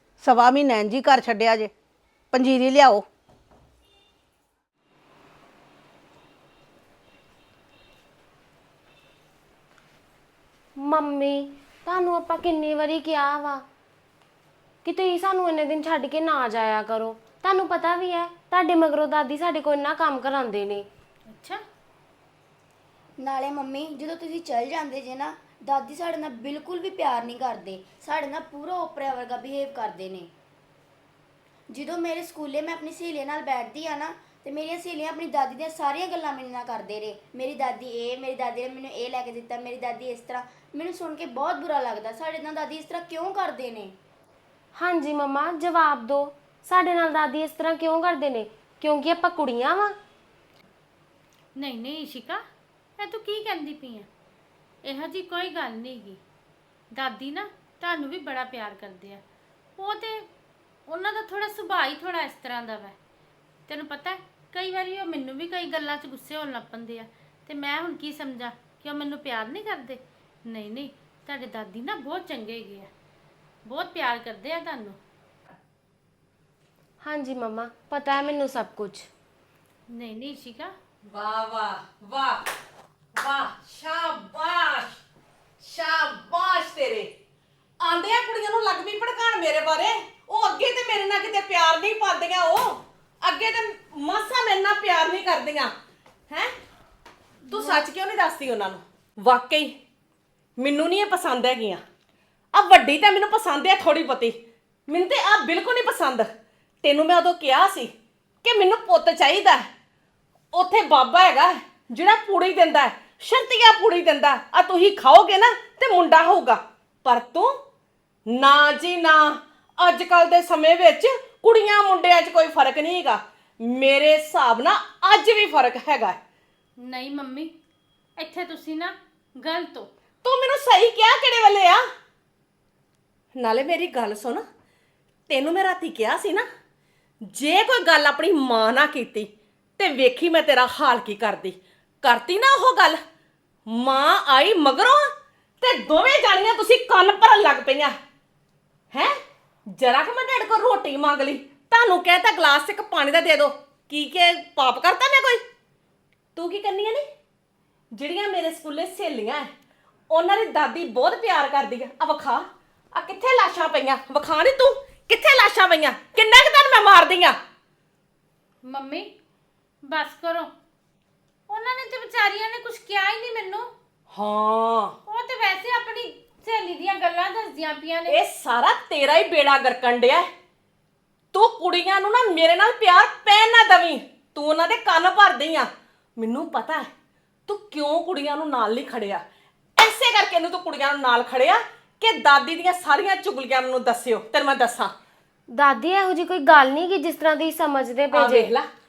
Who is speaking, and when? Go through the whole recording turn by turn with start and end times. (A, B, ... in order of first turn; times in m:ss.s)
0:00.2-0:01.7 A
0:02.3-0:03.1 A
0:10.8-0:13.6 B
0:14.8-0:20.9 B
0:21.3-0:21.6 C
0:23.2-0:30.3 D
0:31.7-0:44.0 D
0:44.8-0:50.0 B
0:51.6-0:52.4 C
0:53.0-0:54.1 C
0:54.8-0:56.2 C
0:56.9-0:59.2 C
0:59.8-1:00.3 C
1:00.9-1:03.0 C
1:03.7-1:12.9 C
1:13.7-1:15.0 C
1:17.0-1:19.1 B
1:19.9-1:20.7 C
1:21.1-1:22.4 E
1:23.2-1:25.0 E
1:25.6-1:27.1 E
1:27.8-1:35.7 E
1:37.5-1:39.7 E
1:40.6-1:41.8 E
1:42.5-1:44.4 E
1:44.9-1:46.3 E
1:46.8-1:47.9 E
1:48.4-1:49.7 E
1:50.5-1:57.5 E
1:58.3-2:06.2 E
2:06.8-2:07.5 C
2:08.2-2:09.9 C
2:10.2-2:11.8 E
2:13.4-2:14.4 E
2:15.3-2:16.5 E
2:17.3-2:23.0 E
2:23.7-2:25.0 E
2:25.6-2:28.0 E
2:29.8-2:35.4 E
2:36.4-2:37.0 E
2:37.9-2:39.5 E
2:40.1-2:47.4 E
2:48.6-2:49.1 C
2:49.9-2:50.5 C
2:51.5-2:53.7 C
2:54.1-2:55.0 E
2:55.1-2:58.2 C
2:58.1-3:00.3 E
3:01.3-3:06.9 E
3:07.5-3:09.2 E
3:09.8-3:14.9 E
3:15.5-3:18.5 B
3:18.1-3:18.7 E